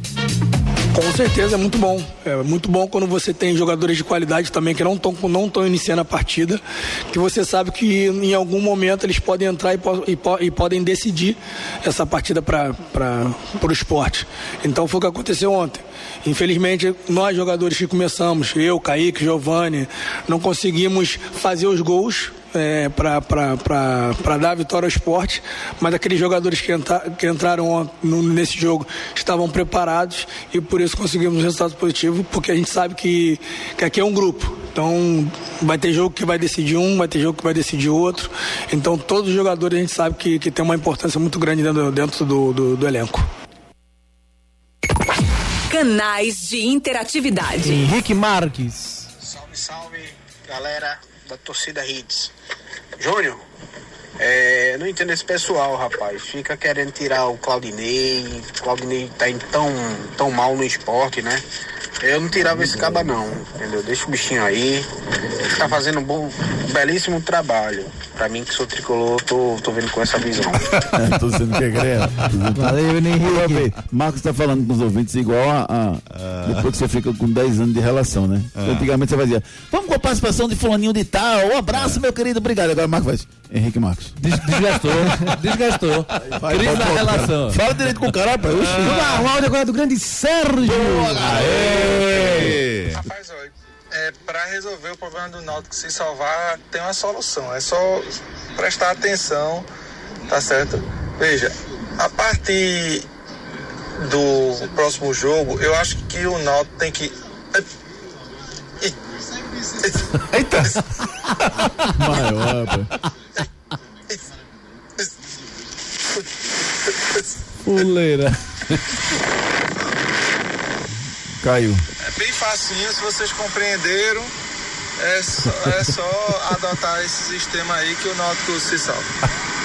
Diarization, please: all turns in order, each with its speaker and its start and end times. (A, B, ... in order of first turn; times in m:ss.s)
0:00.9-0:43.3 A
0:45.7-0:47.8 B
0:47.6-0:49.1 C
0:49.2-0:52.3 D
0:53.0-0:53.4 D
0:54.2-1:01.4 D
1:02.0-1:04.9 D
1:05.5-1:10.8 D
1:10.9-1:24.2 E
1:12.5-1:13.7 C
1:24.2-1:27.8 F
1:26.2-1:29.3 E
1:28.8-1:31.5 C
1:30.6-1:32.6 E
1:31.2-1:32.5 F
1:32.9-1:39.6 G
1:40.3-1:43.1 G
1:44.0-1:47.6 G
1:49.8-1:50.1 G
1:51.9-1:52.9 E
1:57.6-1:59.0 F
2:01.4-2:01.8 E
2:02.0-2:04.3 G
2:05.0-2:09.1 G